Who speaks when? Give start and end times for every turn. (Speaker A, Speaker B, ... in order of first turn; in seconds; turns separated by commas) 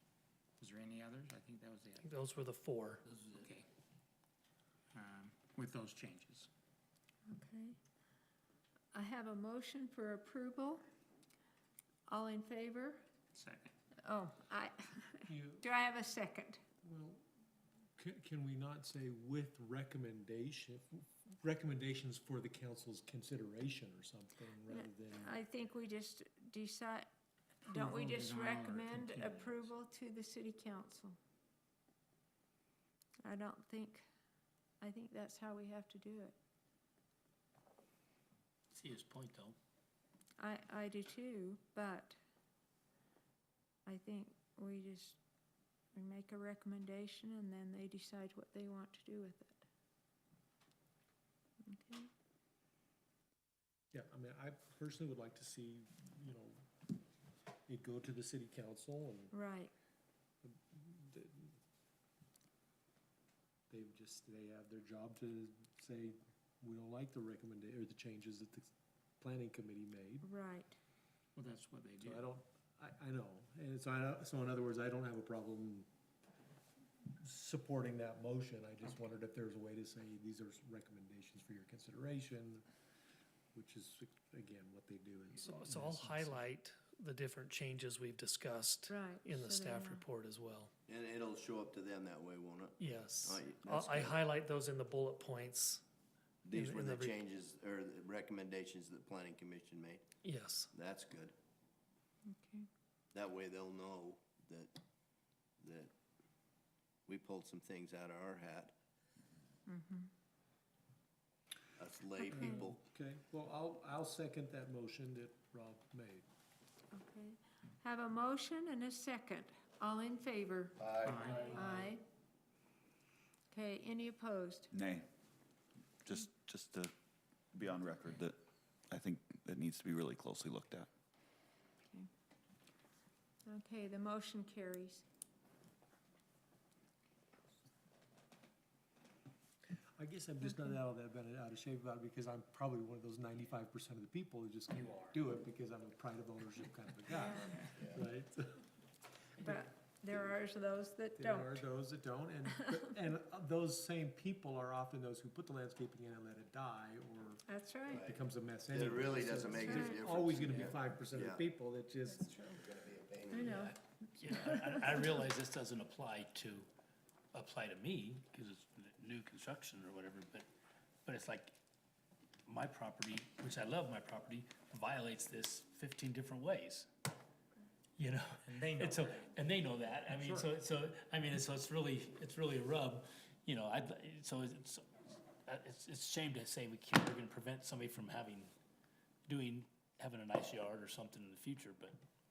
Speaker A: 0.6-2.0, Speaker B: 2.0-3.0, Speaker A: 3.4-3.7, Speaker A: 5.0-6.5, Speaker C: 7.3-7.8, Speaker C: 8.9-10.8, Speaker C: 12.1-13.1, Speaker A: 13.3-13.7, Speaker C: 14.0-16.6, Speaker D: 15.3-15.7, Speaker D: 16.8-17.2, Speaker D: 18.0-25.3, Speaker C: 24.7-27.1, Speaker C: 27.6-31.2, Speaker A: 27.7-29.5, Speaker C: 33.2-34.0, Speaker C: 34.8-36.4, Speaker E: 38.7-39.6, Speaker C: 40.4-42.2, Speaker C: 43.9-45.2, Speaker C: 45.9-49.6, Speaker C: 51.7-52.1, Speaker D: 53.9-56.6, Speaker D: 57.7-59.3, Speaker C: 59.3-59.7, Speaker D: 60.4-61.5, Speaker D: 63.7-68.7, Speaker D: 69.2-70.3, Speaker C: 70.2-70.8, Speaker A: 71.4-72.0, Speaker C: 71.4-72.2, Speaker D: 72.0-75.9, Speaker D: 77.2-82.6, Speaker D: 83.5-86.4, Speaker B: 85.4-90.7, Speaker C: 88.9-90.0, Speaker F: 90.9-94.2, Speaker B: 92.8-95.8, Speaker F: 96.4-100.0, Speaker B: 96.5-97.2, Speaker B: 100.2-100.7, Speaker F: 100.7-101.3, Speaker C: 102.3-102.7, Speaker F: 103.1-104.8, Speaker F: 105.6-105.9, Speaker F: 107.1-108.7, Speaker C: 109.7-110.1, Speaker F: 111.8-112.8, Speaker D: 112.2-116.3, Speaker C: 116.9-122.0, Speaker F: 120.8-121.6, Speaker C: 123.5-124.7, Speaker G: 124.7-125.1, Speaker G: 126.0-126.9, Speaker G: 127.5-128.4, Speaker G: 128.9-130.9, Speaker C: 133.5-135.1, Speaker D: 140.0-148.6, Speaker C: 147.2-147.6, Speaker F: 147.8-148.0, Speaker C: 149.4-151.7, Speaker D: 151.2-162.6, Speaker C: 152.5-152.9, Speaker C: 157.5-158.1, Speaker F: 157.9-161.4, Speaker C: 159.6-160.1, Speaker F: 162.5-163.8, Speaker C: 163.3-165.1, Speaker E: 164.2-166.7, Speaker E: 167.3-170.5, Speaker E: 171.1-171.6, Speaker E: 172.5-176.9, Speaker E: 178.0-184.9, Speaker C: 178.7-179.0, Speaker E: 185.5-188.5, Speaker E: 189.3-192.0